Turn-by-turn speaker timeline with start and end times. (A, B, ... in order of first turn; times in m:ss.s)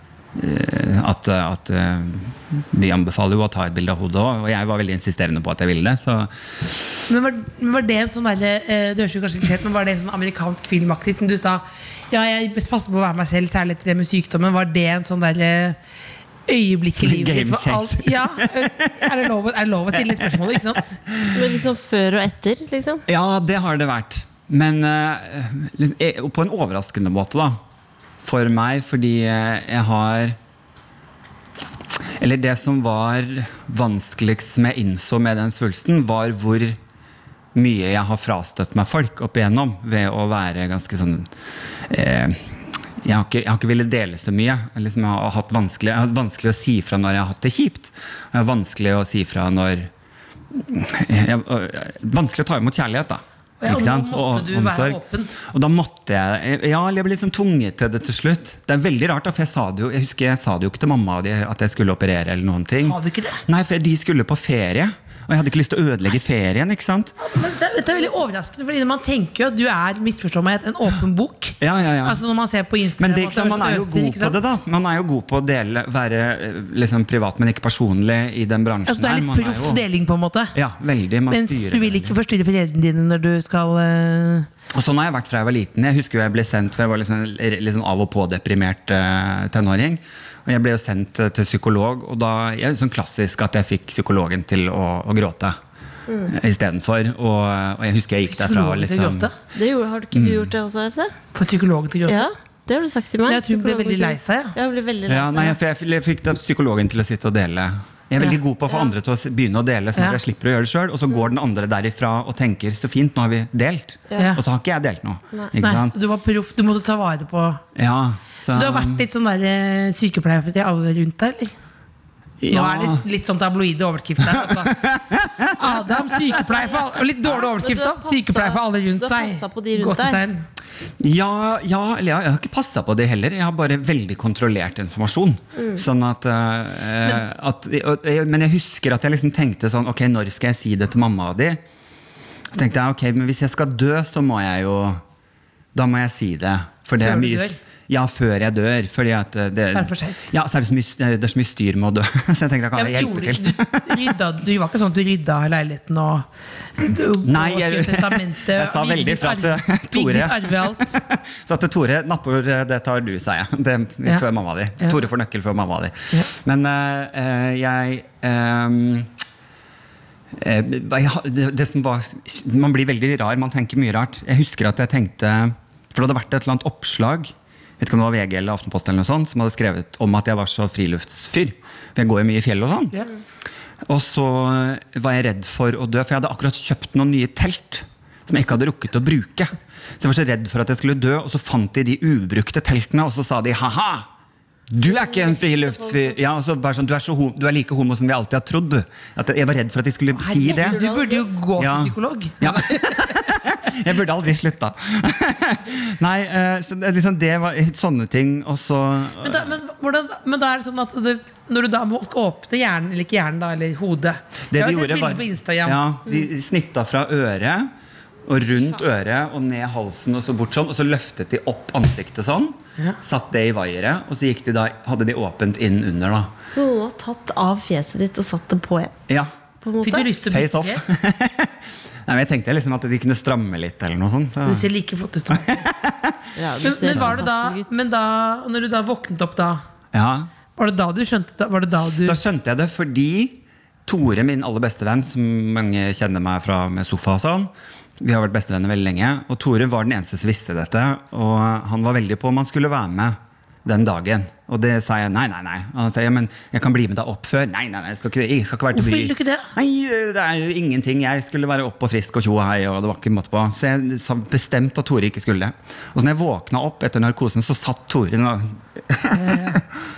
0:00.4-0:06.8 A
0:07.1-0:15.8 B
0:16.5-0:21.0 B
0:17.0-0:19.3 A
0:19.9-0:21.4 A
0:21.3-0:23.0 C
0:23.1-0:27.6 A
0:28.2-0:30.4 A
0:32.2-0:36.8 A
0:37.6-0:41.3 A
0:41.9-0:49.9 A
0:50.6-1:07.2 A
0:53.6-0:55.3 B
1:02.8-1:03.4 B
1:07.2-1:14.4 B
1:11.6-1:12.2 A
1:13.0-1:19.8 A
1:18.9-1:20.6 B
1:20.6-1:22.2 A
1:21.3-1:24.5 B
1:24.7-1:35.6 A
1:36.3-1:39.3 A
1:38.3-1:39.4 B
1:39.5-1:41.1 C
1:40.1-1:40.5 A
1:41.3-1:42.3 B
1:42.1-1:45.6 C
1:43.3-1:44.6 B
1:45.1-1:55.9 A
1:54.1-1:54.4 C
1:54.2-1:54.4 B
1:55.6-1:57.6 B
1:57.8-1:59.1 A
1:58.5-2:01.5 B
2:02.4-2:03.0 A
2:02.5-2:04.8 B
2:04.3-2:06.4 A
2:05.5-2:10.4 B
2:07.3-2:10.2 C
2:11.0-2:21.6 A
2:22.5-2:25.0 A
2:25.8-2:34.1 A
2:27.0-2:27.6 B
2:29.7-2:30.3 B
2:32.8-2:41.0 B
2:37.2-2:49.1 A
2:50.4-3:02.9 A
3:03.9-3:14.1 A
3:14.7-3:20.8 A
3:14.8-3:16.2 C
3:20.1-3:23.3 B
3:20.5-3:21.3 C
3:21.6-3:29.6 A
3:29.2-3:35.8 B
3:34.5-3:37.7 A
3:38.3-3:46.3 A
3:46.5-3:48.9 C
3:49.6-3:50.1 C
3:49.8-3:50.9 B
3:50.2-3:54.7 A
3:54.4-3:55.6 B
3:55.3-3:57.3 A
3:56.4-3:57.8 C
3:56.6-3:59.6 B
3:59.9-4:00.3 A
4:00.6-4:02.2 B
4:01.8-4:29.6 A
4:18.7-4:19.5 B
4:29.1-4:29.6 B